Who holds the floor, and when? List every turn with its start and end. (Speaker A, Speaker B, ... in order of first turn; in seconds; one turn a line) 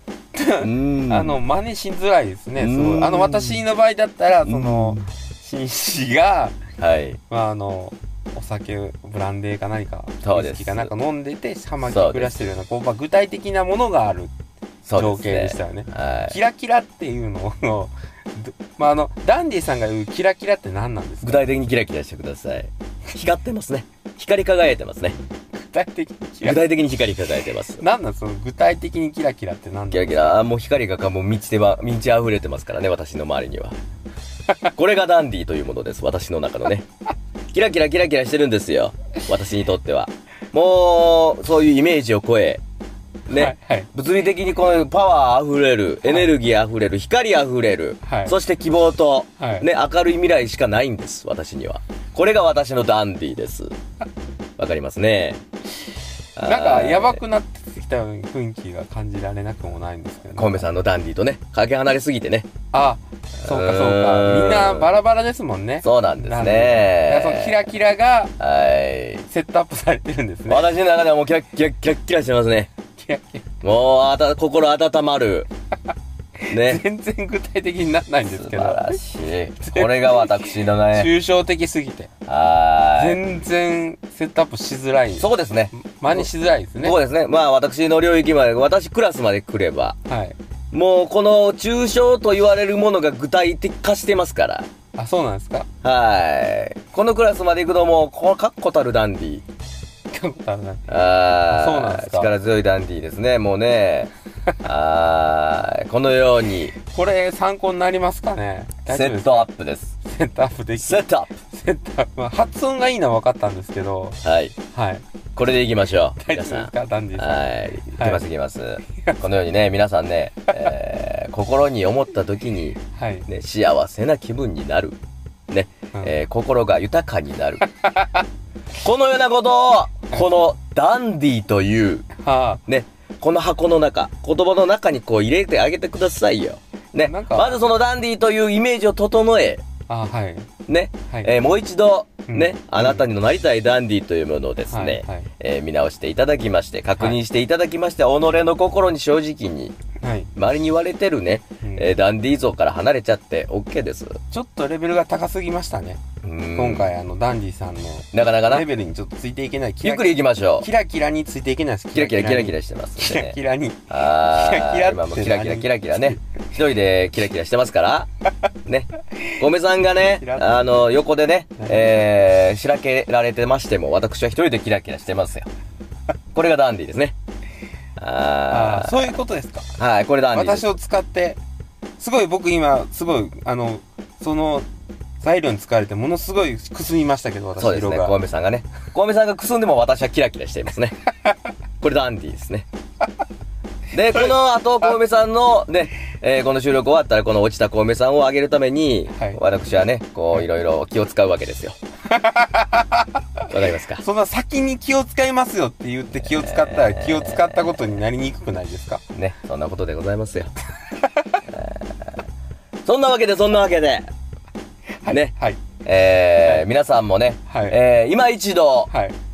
Speaker A: 0.3-6.6
Speaker B: 0.6-1.4
Speaker B: 2.5-3.6
Speaker B: 4.4-5.0
Speaker B: 6.8-7.2
Speaker A: 7.3-14.3
Speaker B: 10.2-10.9
Speaker B: 11.8-12.5
Speaker B: 14.8-16.4
Speaker A: 14.9-21.5
Speaker B: 21.2-25.2
Speaker A: 25.5-26.6
Speaker B: 26.4-27.8
Speaker A: 27.8-30.4
Speaker B: 29.9-33.8
Speaker B: 34.7-36.8
Speaker B: 37.5-42.6
Speaker B: 43.3-53.7
Speaker A: 43.3-43.9
Speaker A: 46.0-46.3
Speaker A: 48.0-48.3
Speaker A: 49.4-49.7
Speaker B: 54.6-55.4
Speaker B: 56.4-57.2
Speaker A: 56.4-60.7
Speaker B: 60.3-62.5
Speaker A: 62.7-68.3
Speaker B: 63.4-64.9
Speaker B: 65.8-67.7
Speaker B: 68.4-69.3
Speaker A: 69.3-70.7
Speaker B: 70.5-72.7
Speaker A: 73.0-73.5
Speaker B: 73.6-75.5
Speaker A: 76.5-79.0
Speaker B: 76.5-76.8
Speaker B: 78.2-81.1
Speaker A: 79.6-82.1
Speaker B: 82.2-83.2
Speaker A: 83.0-87.0
Speaker B: 85.2-90.0
Speaker A: 90.1-90.4
Speaker B: 90.7-94.7
Speaker A: 95.0-95.7
Speaker B: 95.8-99.4
Speaker A: 100.1-100.9
Speaker B: 100.9-104.1
Speaker A: 101.5-102.3
Speaker B: 104.6-106.7
Speaker A: 106.8-109.5
Speaker B: 108.9-109.9
Speaker A: 110.0-114.2
Speaker B: 110.8-111.3
Speaker B: 114.2-114.5
Speaker A: 114.7-115.0
Speaker B: 115.3-125.0
Speaker A: 116.2-118.2
Speaker A: 122.9-123.2
Speaker B: 125.5-127.6
Speaker A: 127.8-128.2
Speaker B: 128.8-132.1
Speaker A: 132.2-132.6
Speaker B: 132.7-139.6
Speaker A: 137.0-137.6
Speaker A: 139.9-140.5
Speaker B: 140.7-149.7
Speaker A: 142.3-143.1
Speaker A: 144.7-145.3
Speaker A: 150.0-150.3
Speaker B: 150.3-154.2
Speaker A: 151.6-151.9
Speaker A: 154.3-156.0
Speaker B: 156.2-156.9
Speaker A: 156.5-166.2
Speaker B: 158.1-158.7
Speaker B: 159.8-160.7
Speaker B: 161.9-163.4
Speaker B: 163.9-168.1
Speaker B: 168.7-175.5
Speaker A: 170.2-170.8
Speaker A: 171.6-171.9
Speaker B: 176.3-177.2
Speaker B: 178.0-179.2
Speaker A: 178.5-179.7
Speaker B: 179.8-180.7
Speaker A: 180.3-181.4
Speaker A: 182.0-184.7
Speaker A: 185.2-188.1
Speaker B: 187.6-190.9
Speaker B: 191.8-192.7
Speaker B: 193.9-201.8
Speaker A: 199.1-199.4
Speaker A: 202.1-203.5
Speaker B: 203.5-204.0
Speaker A: 204.0-209.0
Speaker B: 206.2-207.9
Speaker B: 209.1-210.5
Speaker A: 211.0-211.4
Speaker B: 211.5-212.2
Speaker B: 212.8-214.1
Speaker A: 215.0-215.6
Speaker B: 215.1-215.3
Speaker B: 215.8-218.9
Speaker A: 217.5-217.8
Speaker A: 218.9-219.2